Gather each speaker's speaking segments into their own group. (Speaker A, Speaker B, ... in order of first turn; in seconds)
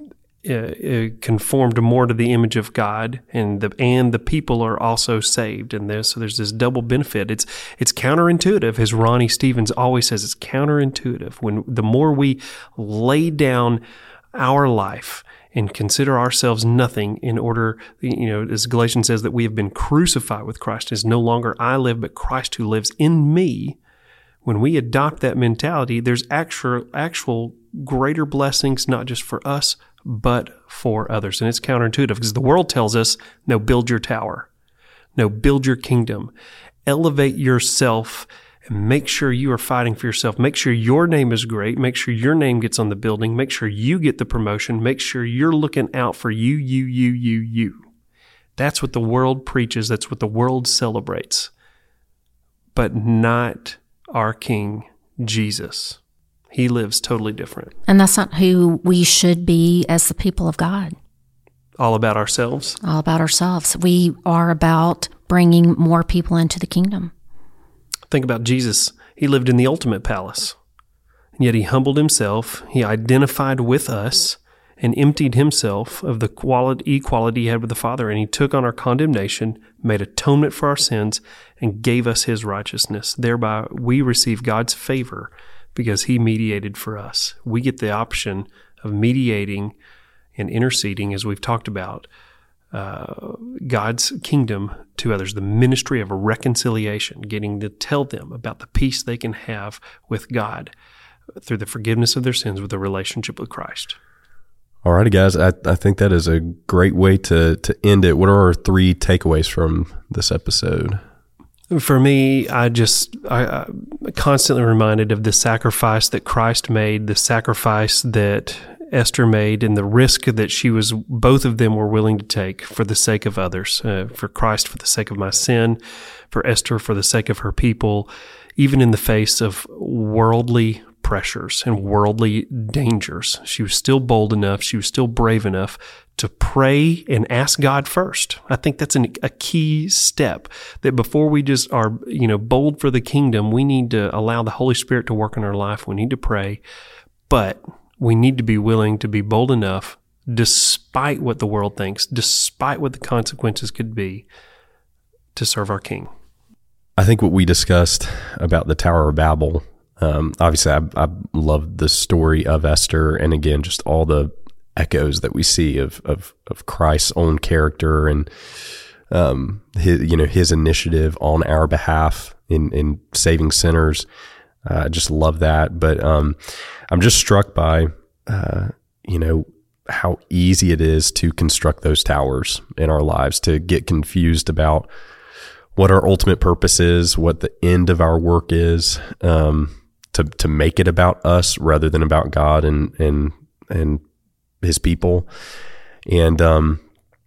Speaker A: 0.4-13.8, 14.3-23.8, 24.4-34.5, 35.1-36.3, 36.9-47.8, 48.6-51.5, 52.7-56.0, 56.5-57.7, 61.8-62.8, 68.1-70.5, 71.4-89.7, 90.4-92.1, 92.7-100.7, 101.4-104.0, 111.7-125.8, 126.3-146.6, 147.3-154.2, 155.3-156.1
Speaker B: 57.9-60.9, 62.8-67.1
Speaker C: 104.8-111.0, 157.0-168.3, 169.1-174.1, 174.7-176.4, 176.9-184.9, 185.8-194.0, 194.6-195.3, 196.1-196.8